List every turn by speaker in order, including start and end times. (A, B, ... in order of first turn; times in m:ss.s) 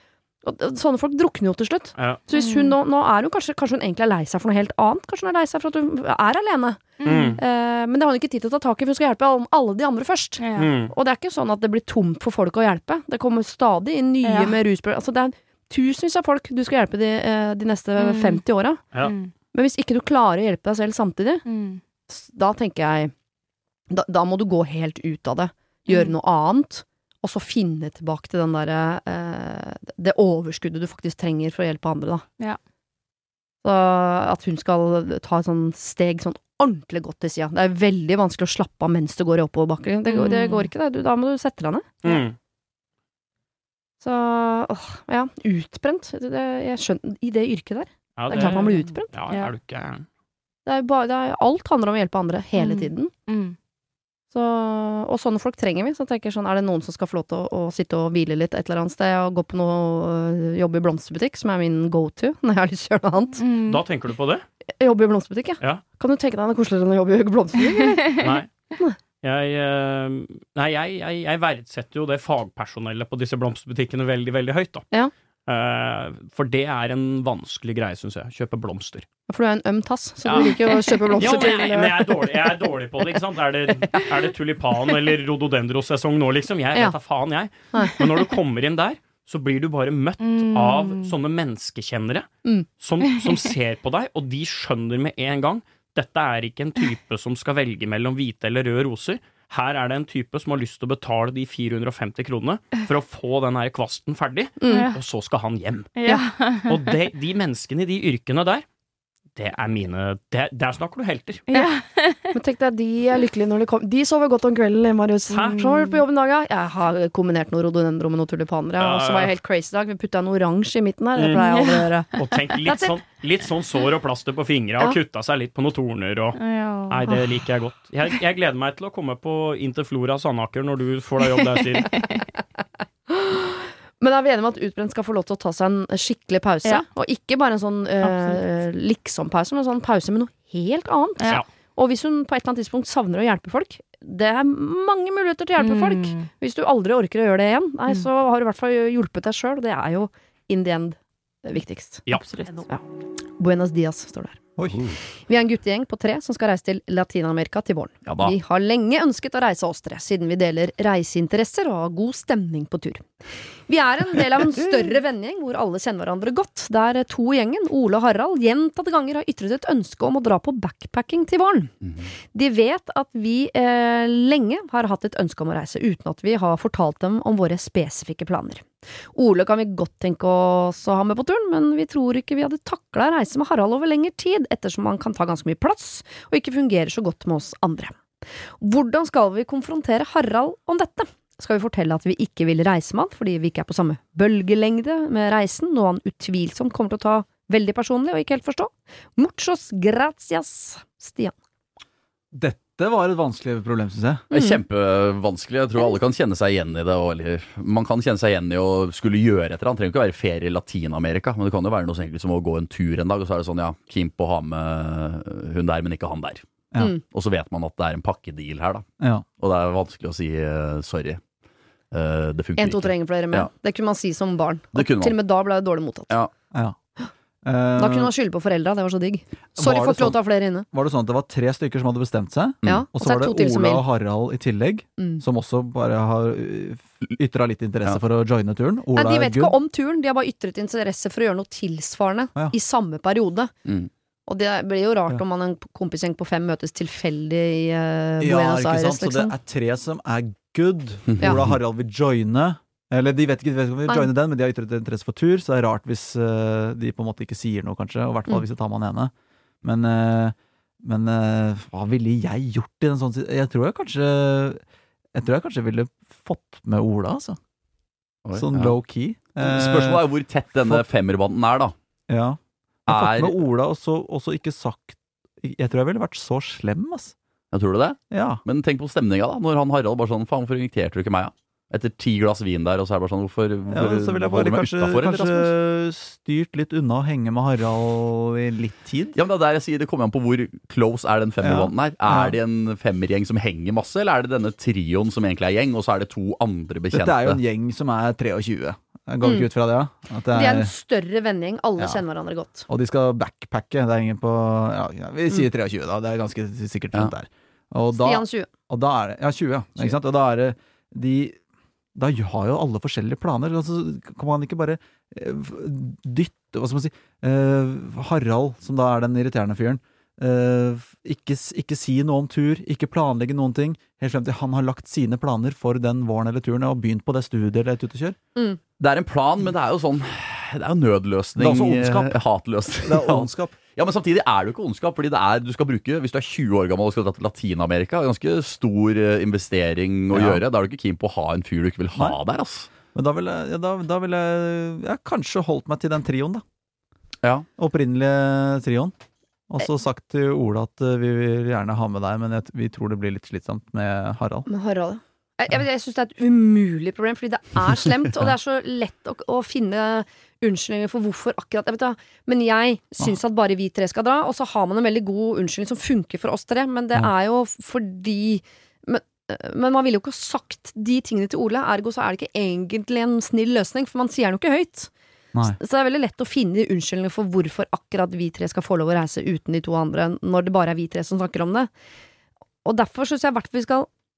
0:00.4-0:18.8 A
0:02.3-0:02.8 B
0:07.0-0:07.4 B
0:07.0-0:07.4 C
0:10.4-0:10.7 B
0:10.6-0:10.9 C
0:14.2-0:14.6 B
0:18.0-0:18.4 B
0:19.0-0:19.3 B
0:19.5-0:21.4 A
0:21.4-0:21.8 B
0:22.1-0:23.1 A
0:23.9-0:32.2 A
0:25.9-0:26.1 B
0:33.6-0:42.2 A
0:40.1-0:40.7 B
0:42.0-0:42.4 C
0:44.0-0:49.1 A
0:48.2-0:50.0 C
0:48.3-0:49.5 B
0:50.6-0:53.1 A
0:52.6-0:53.6 B
0:54.3-1:03.4 A
1:03.4-1:03.8 B
1:03.6-1:04.4 C
1:04.8-1:08.2 A
1:08.1-1:08.4 B
1:08.2-1:08.5 C
1:09.2-1:14.8 C
1:15.4-1:19.0 C
1:19.3-1:22.0 A
1:20.2-1:45.9 C
1:20.3-1:21.9 B
1:30.2-1:31.1 B
1:33.1-1:33.5 B
1:44.6-1:44.8 A
1:44.6-1:45.0 B
1:45.9-1:47.0 B
1:46.7-1:48.6 C
1:49.4-1:51.4 C
1:51.5-1:52.3 B
1:52.3-2:02.9 A
1:55.3-1:55.6 C
1:55.4-1:56.0 B
1:58.8-1:59.3 C
2:01.2-2:01.6 C
2:01.5-2:01.8 B
2:02.1-2:06.4 C
2:06.4-2:07.5 B
2:06.9-2:12.0 C
2:11.2-2:12.2 B
2:13.1-2:32.8 A
2:18.0-2:18.4 B
2:25.6-2:26.3 B
2:32.0-2:32.5 C
2:33.4-2:34.4 A
2:34.7-2:35.0 D
2:35.2-2:43.1 A
2:38.0-2:38.3 D
2:43.7-2:51.7 A
2:52.3-3:08.0 A
3:08.6-3:21.3 A
3:22.3-3:24.2 E
3:24.3-3:36.4 D
3:37.0-3:38.8 D
3:39.0-3:39.2 E
3:39.4-3:41.2 D
3:41.9-3:43.5 D
3:42.6-3:46.1 A
3:44.7-3:45.1 D
3:47.4-3:48.1 E
3:47.8-3:50.7 A
3:49.5-3:50.2 E
3:50.7-3:59.6 E
3:52.6-3:53.8 A
3:55.0-3:55.2 A
3:58.9-4:03.5 A
4:04.3-4:09.3 A
4:08.2-4:19.1 E
4:11.1-4:11.5 D
4:19.6-4:24.6 E
4:25.1-4:27.4 E
4:28.2-4:28.7 D
4:28.3-4:30.0 E
4:29.4-4:31.7 D
4:30.6-4:30.8 E
4:32.1-4:37.1 E
4:32.9-4:33.4 D
4:37.5-4:45.5 D
4:38.1-4:38.4 E
4:43.7-4:49.1 E
4:49.1-4:57.4 D
4:51.4-4:52.4 E
4:56.9-5:00.7 E
5:00.3-5:02.6 A
5:01.8-5:02.0 E
5:02.7-5:11.4 E
5:07.9-5:08.5 A
5:11.9-5:28.2 E
5:28.8-5:42.7 D
5:31.4-5:32.2 E
5:32.8-5:33.5 E
5:40.1-5:40.4 E
5:42.9-5:46.4 E
5:47.6-5:48.9 E
5:49.5-5:54.4 E
5:54.5-6:14.9 A
6:15.5-6:21.7 A
6:22.6-6:23.9 A